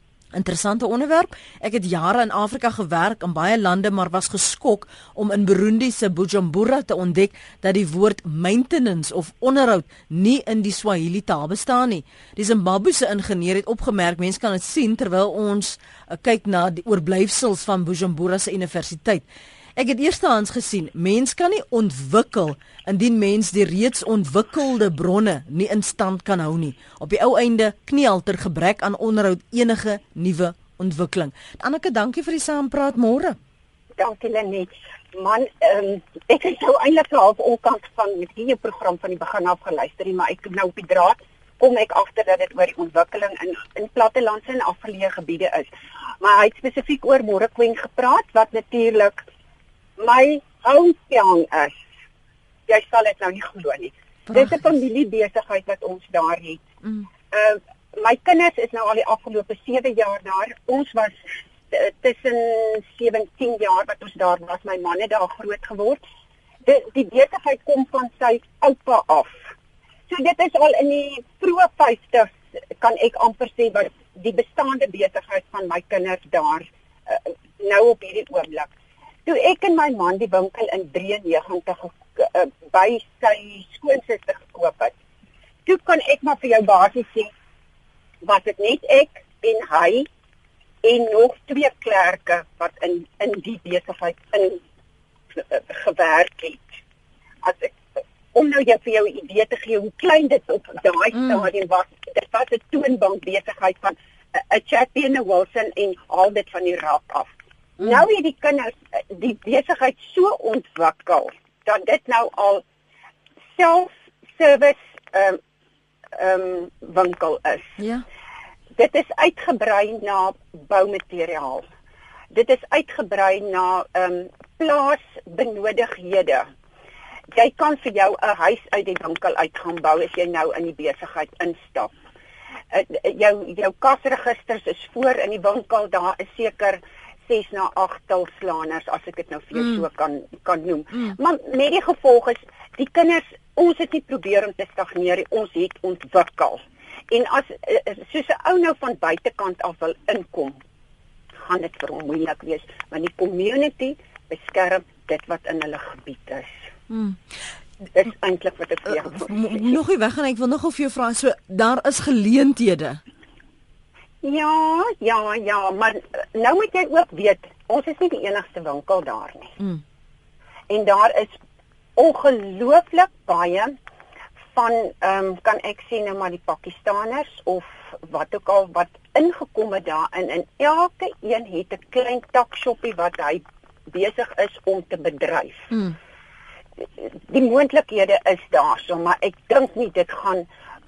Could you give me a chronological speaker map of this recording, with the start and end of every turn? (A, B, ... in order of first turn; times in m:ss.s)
0:00.3-0:19.2 A
0:19.8-0:33.4 A
0:34.0-0:49.2 B
0:50.0-0:51.8 B
0:52.7-0:56.6 B
0:54.3-0:54.6 A
0:57.3-1:01.2 B
1:01.7-1:06.0 B
1:06.7-1:09.5 B
1:10.1-1:18.7 B
1:19.3-1:24.9 B
1:25.7-1:27.3 B
1:28.2-1:30.1 B
1:30.8-1:34.6 B
1:35.4-1:36.8 B
1:37.4-1:37.8 B
1:38.3-1:52.6 B
1:41.2-1:41.4 A
1:53.6-1:55.4 B
1:56.2-1:57.8 B
1:57.8-1:58.0 A
1:58.8-2:01.7 B
2:02.3-2:06.5 B
2:07.3-2:11.9 B
2:12.7-2:30.6 B
2:31.4-2:36.5 B
2:36.9-2:37.2 A
2:38.0-2:39.7 B
2:38.9-2:43.0 A
2:44.2-2:49.6 B
2:50.7-2:51.3 B
2:52.0-2:53.8 B
2:54.5-3:05.7 B
3:06.8-3:10.5 B